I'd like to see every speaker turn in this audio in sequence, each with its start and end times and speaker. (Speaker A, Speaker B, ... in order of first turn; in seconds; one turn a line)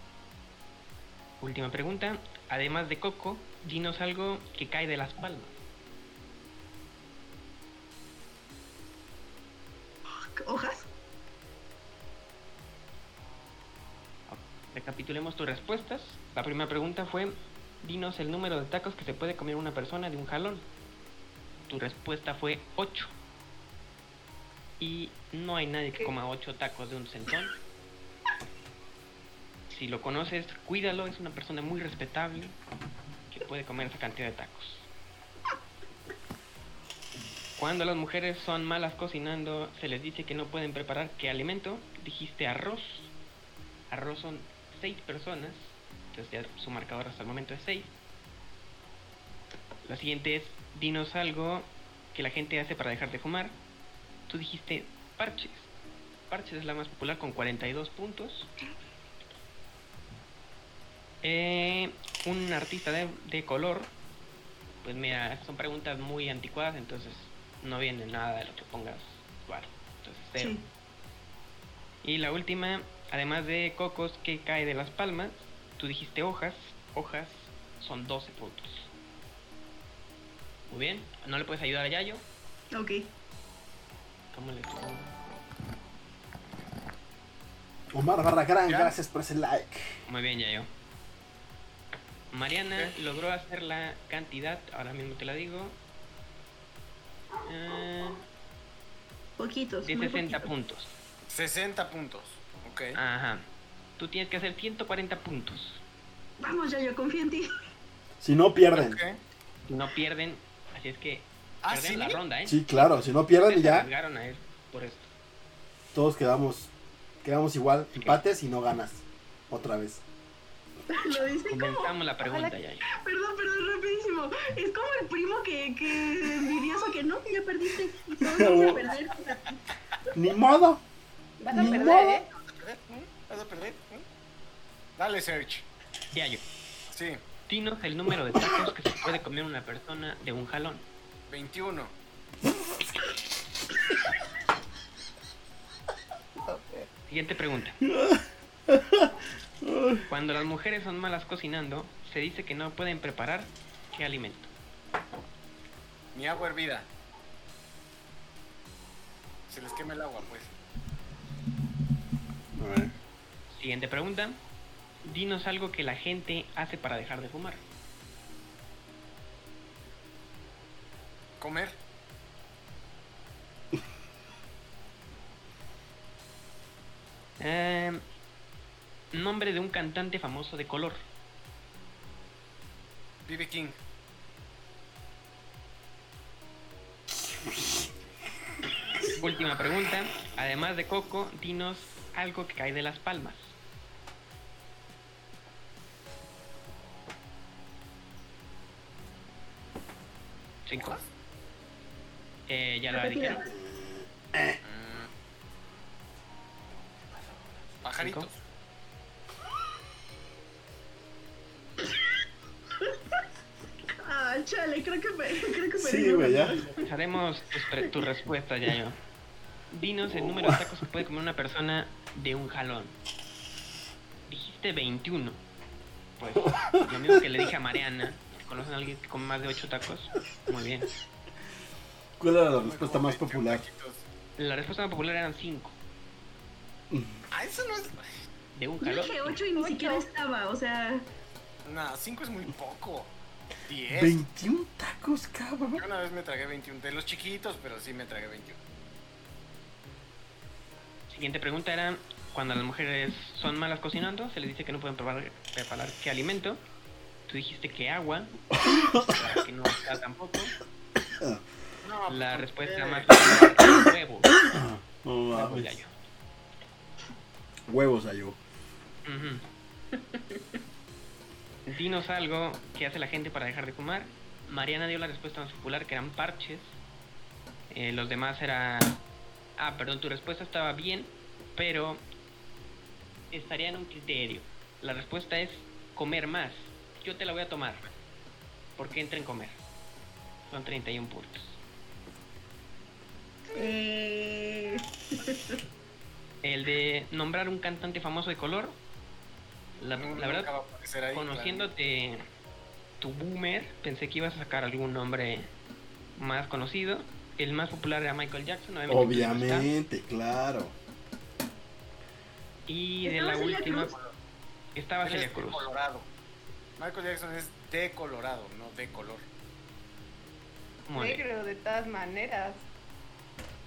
Speaker A: 1.4-5.6
Speaker B: 10.4-10.9
Speaker A: 14.3-20.6
Speaker A: 21.7-23.1
Speaker A: 24.8-27.5
Speaker A: 29.7-32.6
Speaker A: 33.3-34.9
Speaker A: 37.6-43.1
Speaker A: 43.9-47.9
Speaker A: 49.8-53.6
Speaker A: 54.3-55.7
Speaker A: 56.3-58.5
Speaker A: 61.2-63.9
Speaker A: 64.8-70.6
Speaker B: 70.4-70.7
Speaker A: 72.0-78.9
Speaker A: 80.7-82.2
Speaker B: 82.7-83.1
Speaker A: 84.3-85.2
Speaker C: 87.9-90.0
Speaker D: 88.7-89.0
Speaker A: 90.1-90.7
Speaker A: 92.3-95.8
Speaker A: 97.5-98.2
Speaker B: 99.4-100.5
Speaker A: 99.8-100.9
Speaker D: 101.3-103.0
Speaker A: 103.0-103.5
Speaker A: 104.0-105.8
Speaker B: 106.4-107.5
Speaker C: 108.2-109.0
Speaker D: 108.7-109.2
Speaker A: 109.7-112.6
Speaker D: 111.6-112.2
Speaker C: 112.5-113.9
Speaker A: 113.4-115.1
Speaker C: 115.9-116.7
Speaker C: 117.2-120.0
Speaker B: 120.9-121.9
Speaker A: 121.5-122.9
Speaker E: 122.2-122.6
Speaker B: 122.9-129.6
Speaker C: 128.2-128.8
Speaker C: 130.1-130.8
Speaker E: 131.4-132.3
Speaker C: 131.5-132.2
Speaker D: 132.4-134.0
Speaker D: 135.0-135.7
Speaker A: 136.1-136.4
Speaker D: 136.9-137.2
Speaker A: 137.5-140.8
Speaker D: 141.3-141.9
Speaker C: 146.5-146.9
Speaker A: 147.1-147.8
Speaker C: 147.8-150.1
Speaker A: 150.1-154.5
Speaker D: 156.1-156.9
Speaker D: 159.5-160.5
Speaker C: 162.6-162.9
Speaker A: 163.5-164.4
Speaker A: 165.0-167.6
Speaker D: 171.4-171.8
Speaker A: 177.4-178.0
Speaker A: 179.1-181.0
Speaker D: 183.3-183.8
Speaker A: 189.2-193.6
Speaker A: 200.7-201.0
Speaker A: 202.5-203.5
Speaker B: 202.9-203.5
Speaker C: 203.4-204.6
Speaker D: 204.6-205.1
Speaker D: 207.8-208.3
Speaker A: 208.0-208.3
Speaker B: 212.8-213.2
Speaker B: 214.0-216.7
Speaker C: 215.8-216.6
Speaker A: 216.7-219.0
Speaker B: 217.8-218.1
Speaker A: 219.7-223.0
Speaker C: 220.1-220.6
Speaker A: 224.3-225.4
Speaker A: 226.2-230.9
Speaker C: 226.4-227.2
Speaker C: 232.2-233.6
Speaker D: 232.5-234.1
Speaker A: 234.4-235.8
Speaker C: 236.9-237.2
Speaker D: 237.3-238.3
Speaker A: 238.5-239.4
Speaker B: 238.8-241.1
Speaker E: 239.6-240.1
Speaker D: 241.7-243.1
Speaker D: 243.7-244.2
Speaker C: 243.9-245.8
Speaker D: 245.8-248.6
Speaker A: 251.1-256.6
Speaker A: 257.3-258.4
Speaker C: 258.6-259.2
Speaker A: 258.9-260.5
Speaker D: 261.8-263.3
Speaker A: 262.1-264.4
Speaker C: 264.5-265.8
Speaker A: 265.3-265.9
Speaker C: 267.7-268.4
Speaker A: 269.1-269.4
Speaker A: 271.7-276.8
Speaker A: 277.7-279.0
Speaker A: 279.6-282.1
Speaker A: 283.3-287.9
Speaker A: 288.8-289.6
Speaker A: 290.5-291.6
Speaker B: 293.5-295.6
Speaker A: 296.4-298.8
Speaker A: 299.8-300.5
Speaker D: 299.9-301.7
Speaker A: 301.1-302.3
Speaker A: 303.0-305.5
Speaker A: 306.2-309.7
Speaker C: 308.9-310.8
Speaker A: 312.7-314.0
Speaker B: 313.0-314.0
Speaker A: 314.8-315.7
Speaker D: 315.0-316.1
Speaker D: 316.8-319.2
Speaker A: 320.9-321.2
Speaker E: 320.9-322.7